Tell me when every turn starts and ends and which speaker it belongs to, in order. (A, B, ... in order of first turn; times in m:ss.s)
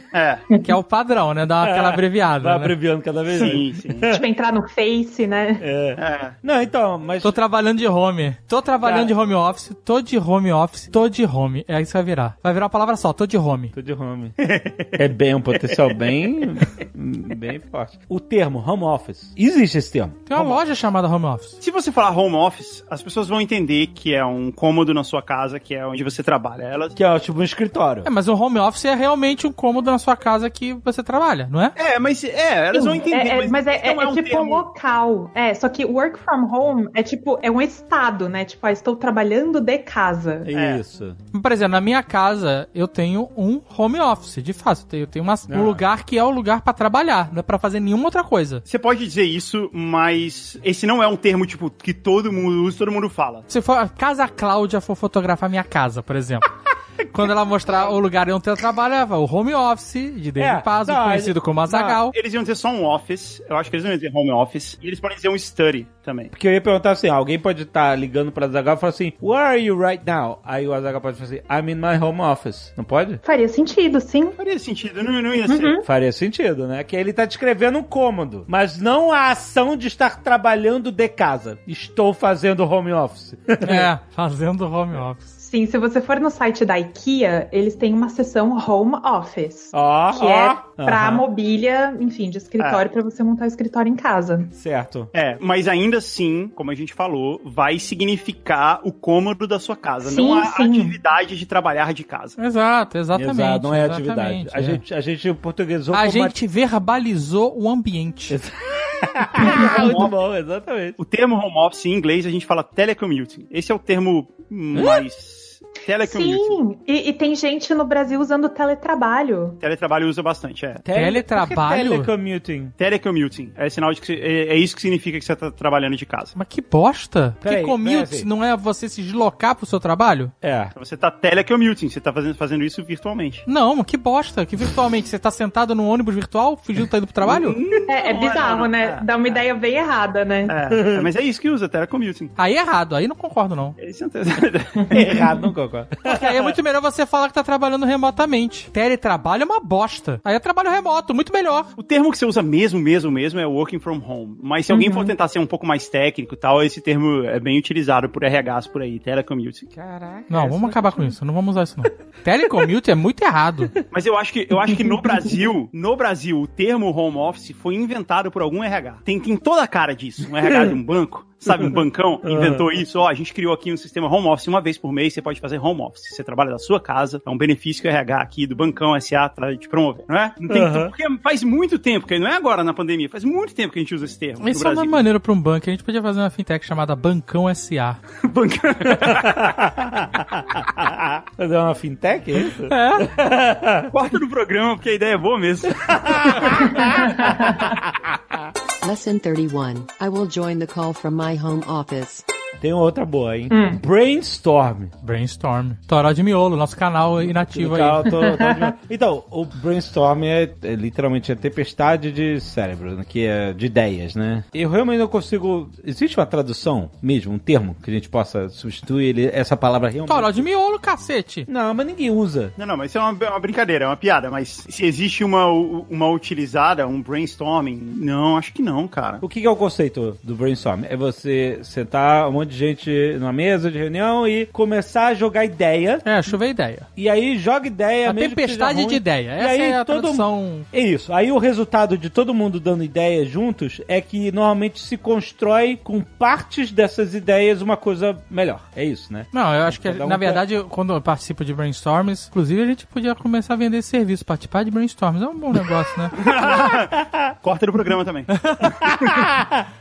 0:00.1-0:00.4 A
0:00.6-0:02.7 B
0:01.6-0:04.2 C
0:03.3-0:04.1 A
0:04.0-0:05.6 D
0:05.6-0:07.4 C
0:06.0-0:06.3 A
0:07.2-0:13.7 B
0:08.8-0:09.1 A
0:13.7-0:14.4 C
0:14.4-0:15.0 A
0:14.9-0:20.6 C
0:20.3-0:21.6 B
0:21.6-0:27.0 A
0:27.0-0:28.1 C
0:28.0-0:31.8 B
0:31.8-0:34.7 A
0:32.7-0:40.5 D
0:40.4-0:41.2 C
0:40.5-0:40.8 A
0:41.3-0:48.6 B
0:45.5-0:45.8 C
0:48.6-0:53.4 A
0:53.5-0:56.5 B
0:57.1-1:02.2 B
1:00.4-1:02.0 C
1:02.1-1:06.3 A
1:06.3-1:13.2 C
1:13.2-1:14.4 D
1:14.4-1:15.8 A
1:15.5-1:15.8 D
1:15.8-1:23.9 C
1:23.6-1:25.3 B
1:25.4-1:34.5 D
1:29.7-1:31.2 C
1:32.6-1:32.8 A
1:34.6-1:35.1 C
1:35.1-1:42.4 A
1:40.0-1:41.0 D
1:42.4-1:44.8 B
1:43.1-1:46.4 C
1:45.9-1:48.4 B
1:48.3-1:51.0 C
1:49.4-1:50.0 D
1:49.4-1:50.1 A
1:51.0-1:56.6 A
1:54.7-1:55.0 C
1:56.0-1:59.6 D
1:59.6-2:00.8 A
2:00.8-2:02.7 C
2:00.9-2:02.1 B
2:02.8-2:06.3 A
2:06.3-2:10.3 B
2:07.4-2:08.3 C
2:10.4-2:10.7 C
2:10.7-2:13.4 A
2:13.4-2:17.6 B
2:17.2-2:19.4 A
2:17.9-2:20.5 D
2:20.5-2:22.3 A
2:20.7-2:21.1 C
2:22.4-2:23.8 B
2:23.8-2:25.2 A
2:24.8-2:25.2 D
2:24.9-2:26.6 C
2:26.0-2:31.7 B
2:31.8-2:39.7 A
2:34.7-2:35.1 D
2:39.7-2:41.2 C
2:40.3-2:43.7 B
2:43.9-3:05.0 A
2:50.5-2:50.7 C
2:51.5-2:52.6 C
3:00.5-3:00.9 C
3:04.4-3:08.0 B
3:08.2-3:09.6 A
3:08.9-3:13.9 C
3:12.7-3:13.1 B
3:13.9-3:17.3 A
3:15.8-3:18.2 C
3:16.6-3:17.7 D
3:18.8-3:22.2 E
3:22.6-3:24.9 C
3:23.5-3:23.8 D
3:25.0-3:28.1 B
3:27.2-3:40.5 C
3:28.2-3:28.7 D
3:40.1-3:41.5 B
3:41.5-3:42.5 C
3:42.6-3:49.2 A
3:49.2-3:56.4 C
3:56.0-3:56.9 B
3:57.0-4:10.4 C
3:58.0-4:00.7 B
4:09.3-4:16.2 B
4:16.2-4:19.0 A
4:16.4-4:17.2 C
4:18.3-4:19.2 B
4:18.8-4:19.6 C